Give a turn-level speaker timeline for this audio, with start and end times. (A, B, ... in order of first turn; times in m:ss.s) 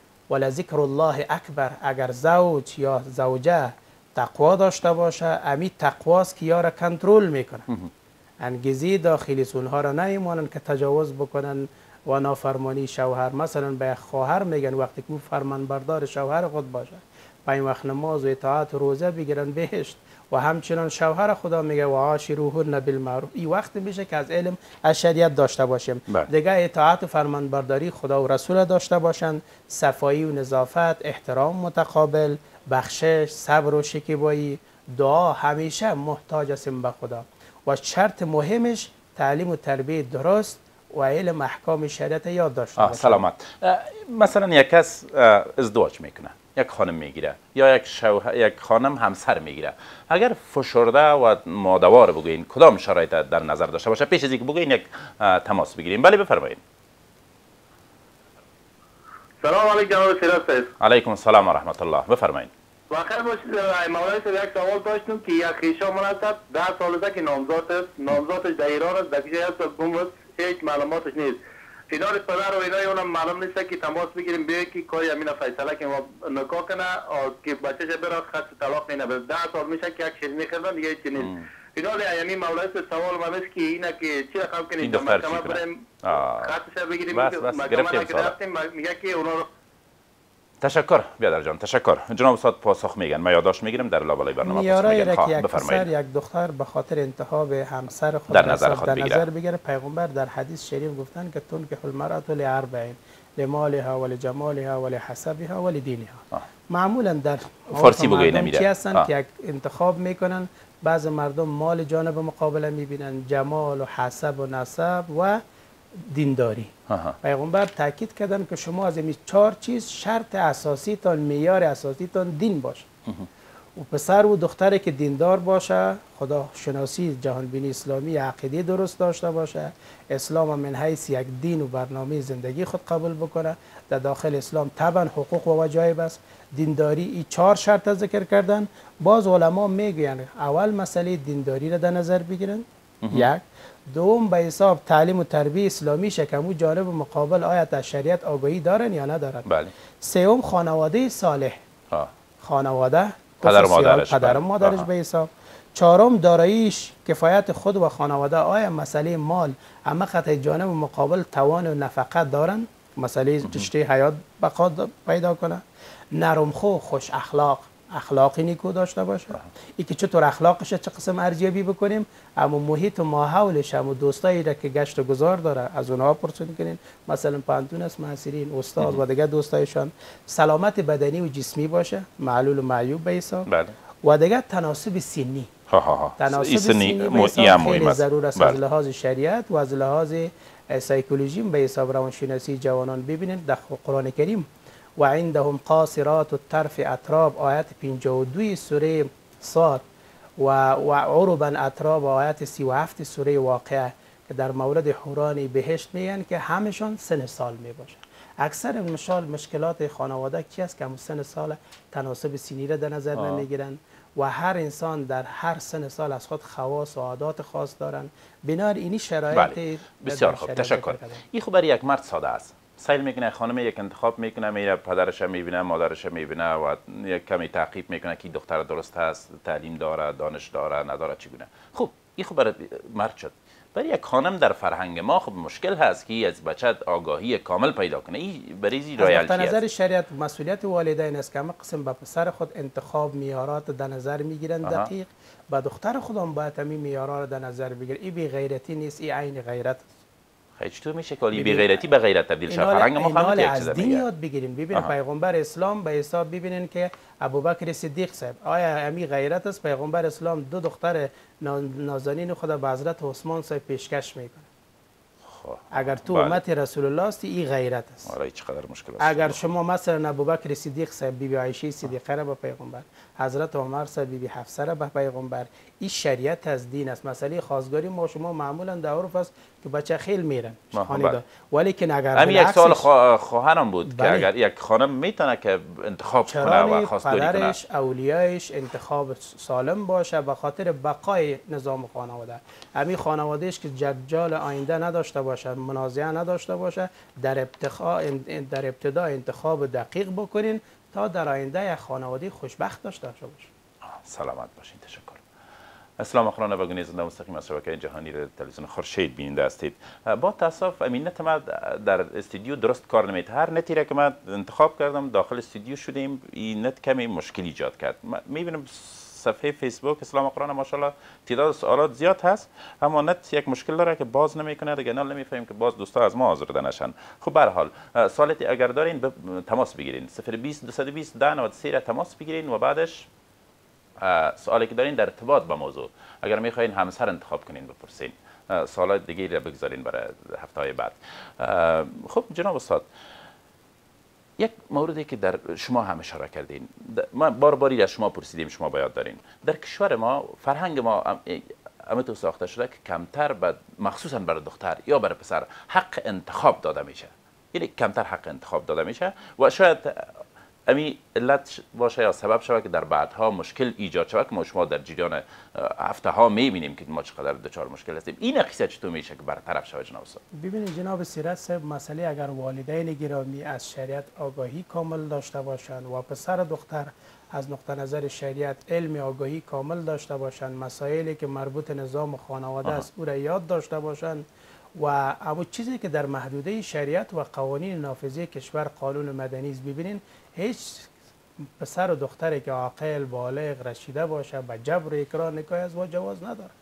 0:00.3-0:07.7 A
0:08.4-0:43.2 A
0:42.8-0:56.6 B
0:59.4-1:00.7 C
1:00.8-1:02.5 B
1:02.9-1:11.4 C
1:11.9-1:25.8 C
1:21.2-1:21.5 B
1:24.8-1:26.6 B
1:26.4-1:29.5 C
1:27.1-1:28.3 B
1:30.6-1:35.9 B
1:34.4-1:55.4 A
1:38.3-1:39.2 B
1:47.7-1:49.1 B
1:56.0-2:02.9 A
1:56.9-1:57.2 B
2:03.8-2:29.4 A
2:23.0-2:23.3 B
2:29.4-2:29.7 B
2:30.0-2:31.6 A
2:32.4-2:45.6 A
2:33.4-2:34.9 B
2:43.4-2:43.7 B
2:46.1-3:03.5 A
3:03.5-3:03.7 B
3:04.0-3:05.5 A
3:05.7-3:08.6 B
3:06.2-3:14.5 A
3:15.0-3:19.8 A
3:20.4-3:41.2 A
3:33.1-3:33.4 B
3:39.3-3:59.6 B
3:59.0-4:09.9 A
4:04.6-4:04.9 B
4:10.6-4:14.0 B
4:11.3-4:11.8 A
4:12.5-4:24.5 A
4:25.2-4:26.4 B
4:25.7-4:28.1 A
4:28.0-4:29.5 B
4:29.0-4:42.9 A
4:40.7-4:41.2 B
4:42.1-4:47.6 B
4:43.8-4:44.3 A
4:46.2-5:03.5 A
5:03.8-5:05.2 B
5:06.0-5:33.1 B
5:34.0-5:42.9 B
5:44.4-6:00.2 B
6:00.7-6:10.2 B
6:10.3-6:24.2 A
6:24.8-6:30.9 A
6:31.6-6:36.5 A